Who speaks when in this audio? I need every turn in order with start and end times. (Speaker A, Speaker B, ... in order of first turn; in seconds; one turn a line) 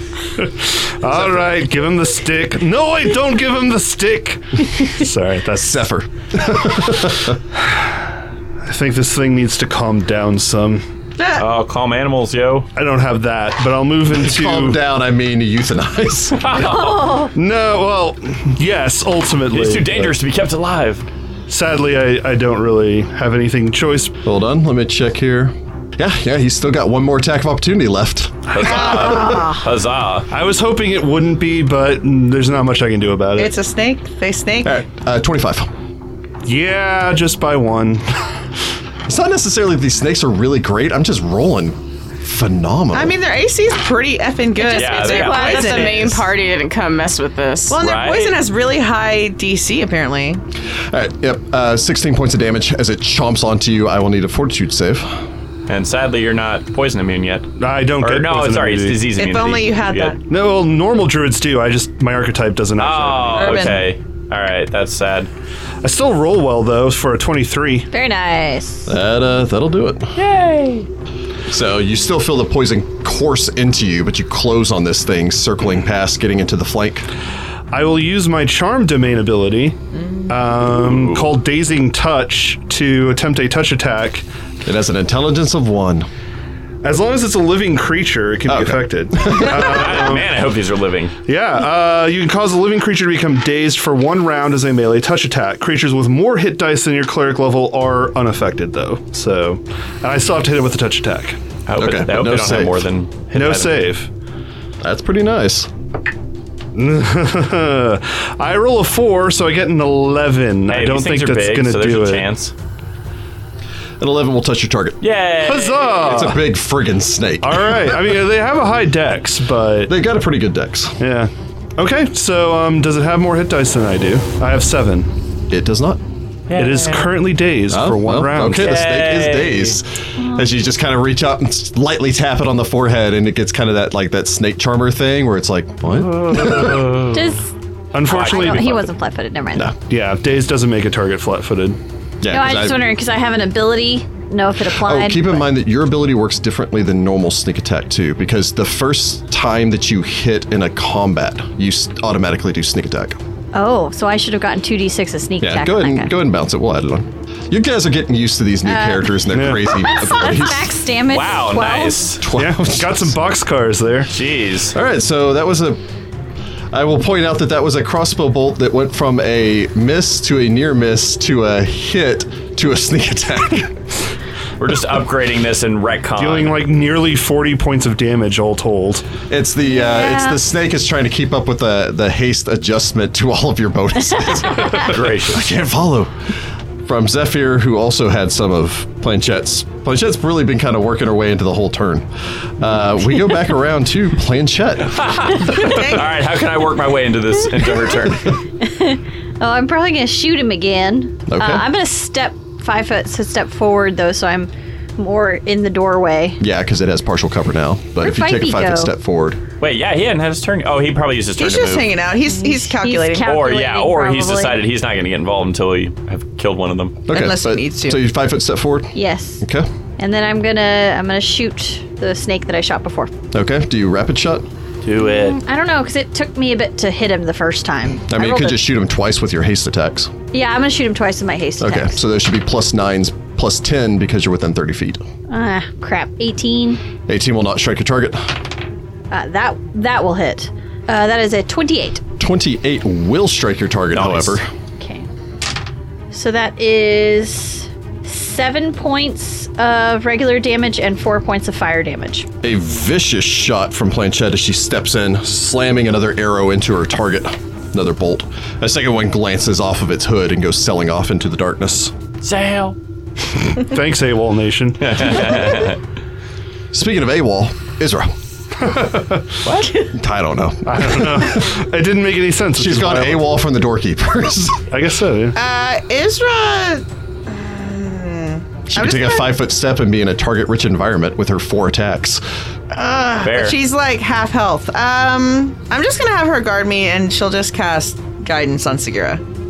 Speaker A: 0.4-5.8
Speaker B: 1.1-1.5
Speaker B: 5.5-7.4
Speaker A: 7.6-7.8
Speaker A: 8.7-10.8
Speaker C: 11.2-11.4
Speaker D: 11.4-12.7
Speaker A: 12.8-14.8
Speaker B: 14.1-16.5
Speaker D: 16.4-17.2
Speaker E: 16.6-17.3
Speaker A: 17.3-20.1
Speaker D: 19.5-21.1
Speaker A: 21.5-24.1
Speaker B: 24.2-29.5
Speaker D: 28.5-30.3
Speaker E: 28.9-29.6
Speaker A: 30.3-33.5
Speaker C: 33.4-34.8
Speaker B: 34.6-35.7
Speaker A: 36.5-38.3
Speaker B: 39.1-43.2
Speaker C: 42.9-46.2
Speaker F: 44.6-47.8
Speaker D: 44.6-46.1
Speaker C: 47.7-50.4
Speaker D: 47.8-48.4
Speaker B: 50.9-55.2
Speaker D: 55.7-60.1
Speaker A: 57.6-59.1
Speaker C: 59.1-60.2
Speaker A: 60.3-63.7
Speaker D: 62.8-65.3
Speaker C: 63.4-63.9
Speaker A: 65.8-67.9
Speaker E: 67.9-68.9
Speaker B: 68.9-70.1
Speaker D: 70.2-70.9
Speaker B: 71.5-77.1
Speaker A: 77.7-79.8
Speaker A: 80.3-84.2
Speaker D: 80.8-81.3
Speaker B: 84.7-86.1
Speaker A: 86.8-90.3
Speaker B: 88.5-89.8
Speaker D: 89.3-91.2
Speaker A: 91.3-101.4
Speaker D: 101.7-103.8
Speaker B: 101.8-102.9
Speaker A: 103.3-104.1
Speaker B: 104.8-105.7
Speaker A: 106.8-112.3
Speaker D: 110.7-112.5
Speaker B: 114.0-115.0
Speaker D: 115.0-116.3
Speaker A: 115.4-116.4
Speaker B: 116.0-118.1
Speaker A: 117.4-119.9
Speaker B: 119.9-121.0
Speaker A: 121.0-125.1
Speaker B: 125.5-126.0
Speaker D: 126.5-127.1
Speaker A: 126.5-128.8
Speaker B: 127.7-137.0
Speaker D: 128.5-129.8
Speaker D: 136.2-137.3
Speaker E: 137.1-137.5
Speaker A: 137.9-138.8
Speaker E: 138.1-139.7
Speaker D: 138.1-138.9
Speaker A: 139.9-141.8
Speaker B: 142.2-142.8
Speaker E: 142.3-145.4
Speaker B: 144.8-153.2
Speaker E: 153.5-156.1
Speaker B: 155.4-160.7
Speaker E: 158.7-162.1
Speaker A: 159.3-159.7
Speaker D: 161.1-162.2
Speaker B: 162.2-163.2
Speaker A: 162.3-164.2
Speaker D: 164.1-164.8
Speaker B: 164.7-165.8
Speaker B: 166.7-173.8
Speaker D: 174.6-176.6
Speaker A: 176.2-179.1
Speaker B: 179.3-186.1
Speaker E: 179.7-180.4
Speaker D: 184.8-185.5
Speaker B: 186.9-192.1
Speaker B: 192.6-195.5
Speaker D: 194.9-198.4
Speaker C: 195.5-196.1
Speaker E: 198.6-206.4
Speaker B: 201.3-201.7
Speaker B: 206.4-209.4
Speaker E: 208.0-208.9
Speaker D: 209.6-212.0
Speaker C: 211.4-213.3
Speaker E: 212.3-214.6
Speaker D: 213.2-217.0
Speaker B: 217.1-219.7
Speaker C: 217.1-218.0
Speaker E: 218.9-219.4
Speaker E: 220.0-223.1
Speaker B: 223.3-224.5
Speaker D: 224.8-225.4
Speaker E: 225.0-228.6
Speaker B: 228.1-230.1
Speaker E: 230.3-232.0
Speaker B: 231.6-235.0
Speaker E: 235.3-236.8
Speaker B: 237.1-238.4
Speaker E: 239.1-242.0
Speaker B: 242.2-244.5
Speaker D: 243.9-244.4
Speaker E: 244.8-245.1
Speaker E: 246.1-252.3
Speaker B: 252.4-261.9
Speaker D: 262.2-262.8
Speaker A: 263.5-265.5
Speaker D: 264.8-265.8
Speaker B: 266.7-268.1
Speaker A: 268.6-269.4
Speaker D: 269.4-269.9
Speaker B: 269.9-271.5
Speaker A: 270.7-273.2
Speaker B: 272.6-274.7
Speaker A: 274.7-275.4
Speaker C: 275.3-279.3
Speaker B: 278.7-282.2
Speaker C: 282.7-289.2
Speaker D: 283.2-283.6